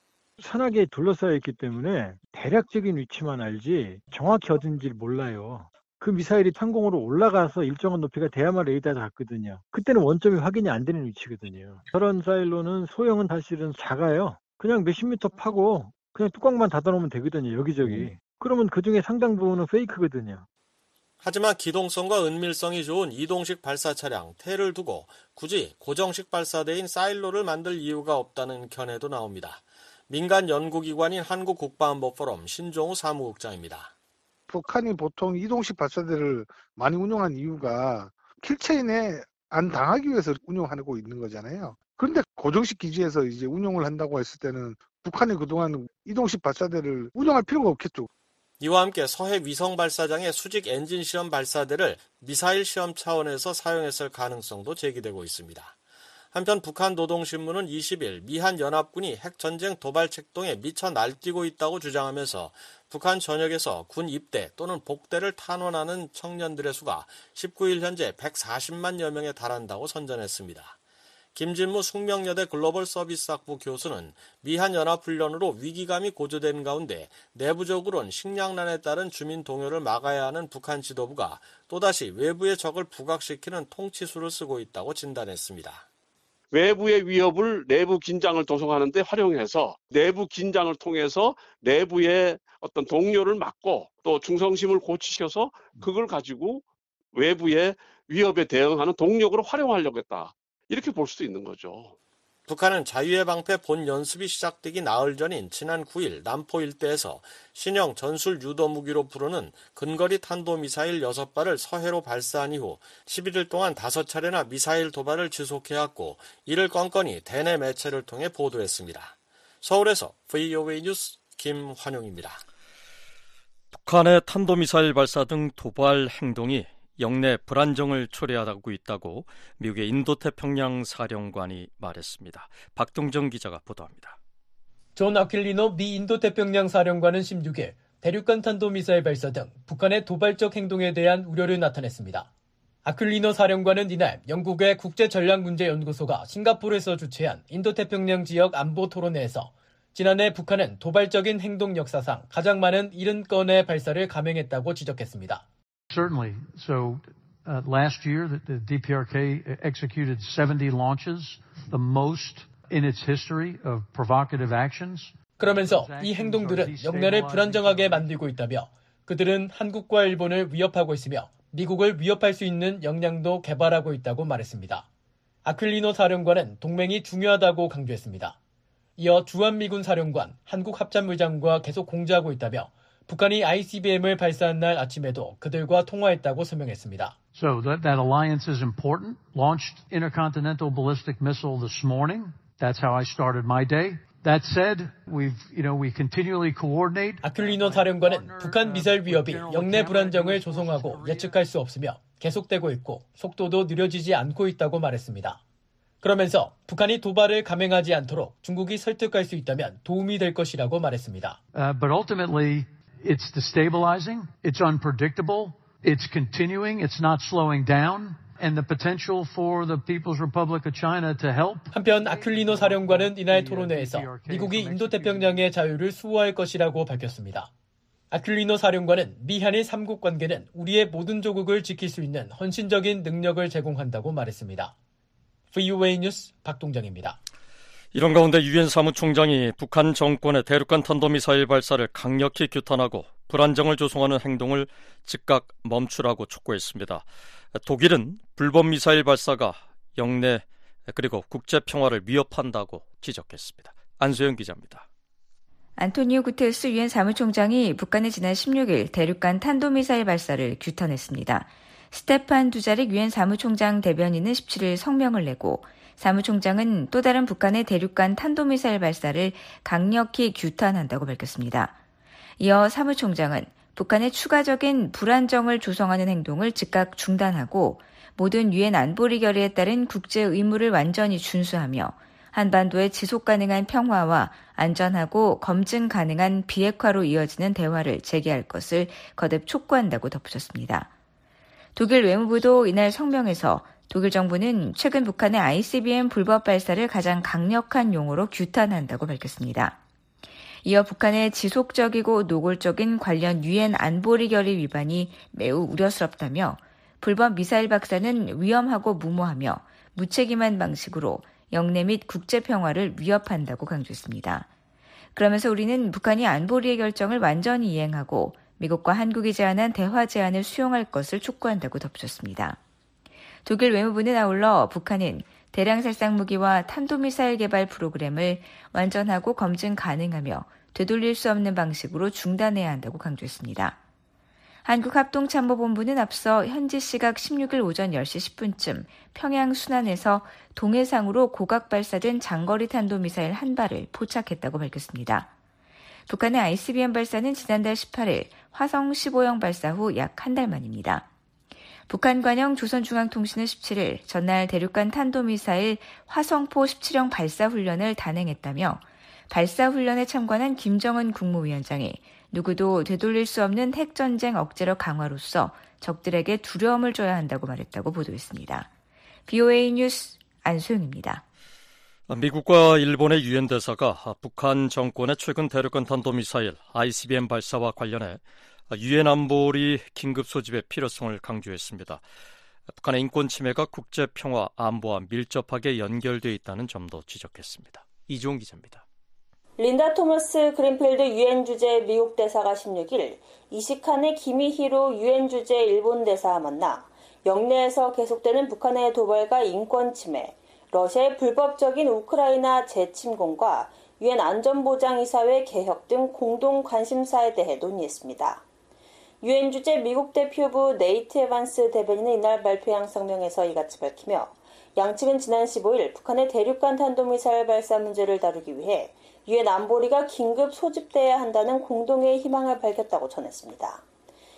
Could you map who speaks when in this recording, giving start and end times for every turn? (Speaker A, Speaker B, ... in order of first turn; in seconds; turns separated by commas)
Speaker A: 0.4-20.4, Speaker B: 21.2-33.9, Speaker C: 34.5-48.1, Speaker B: 48.6-55.8, Speaker B: 56.3-70.8, Speaker B: 71.3-85.8, Speaker D: 86.5-101.9, Speaker B: 102.5-122.4, Speaker E: 123.7-134.2, Speaker F: 134.9-142.3, Speaker F: 142.8-155.4, Speaker G: 155.9-168.2, Speaker F: 165.4-174.8, Speaker F: 175.4-178.3, Speaker F: 179.0-187.2, Speaker G: 187.3-201.4, Speaker F: 197.2-205.4, Speaker F: 206.0-211.4, Speaker G: 211.5-225.6, Speaker F: 221.7-227.5, Speaker F: 228.1-234.7, Speaker F: 235.5-237.2, Speaker E: 237.9-254.8, Speaker H: 255.8-271.8, Speaker H: 272.4-290.9, Speaker H: 291.8-299.8, Speaker H: 300.6-314.5, Speaker H: 315.1-322.6, Speaker H: 323.4-333.8, Speaker H: 334.6-345.3, Speaker H: 346.1-351.1, Speaker H: 351.9-368.7, Speaker H: 369.3-371.2, Speaker E: 372.1-382.0, Speaker E: 382.7-388.8, Speaker I: 389.6-408.4, Speaker I: 409.2-423.8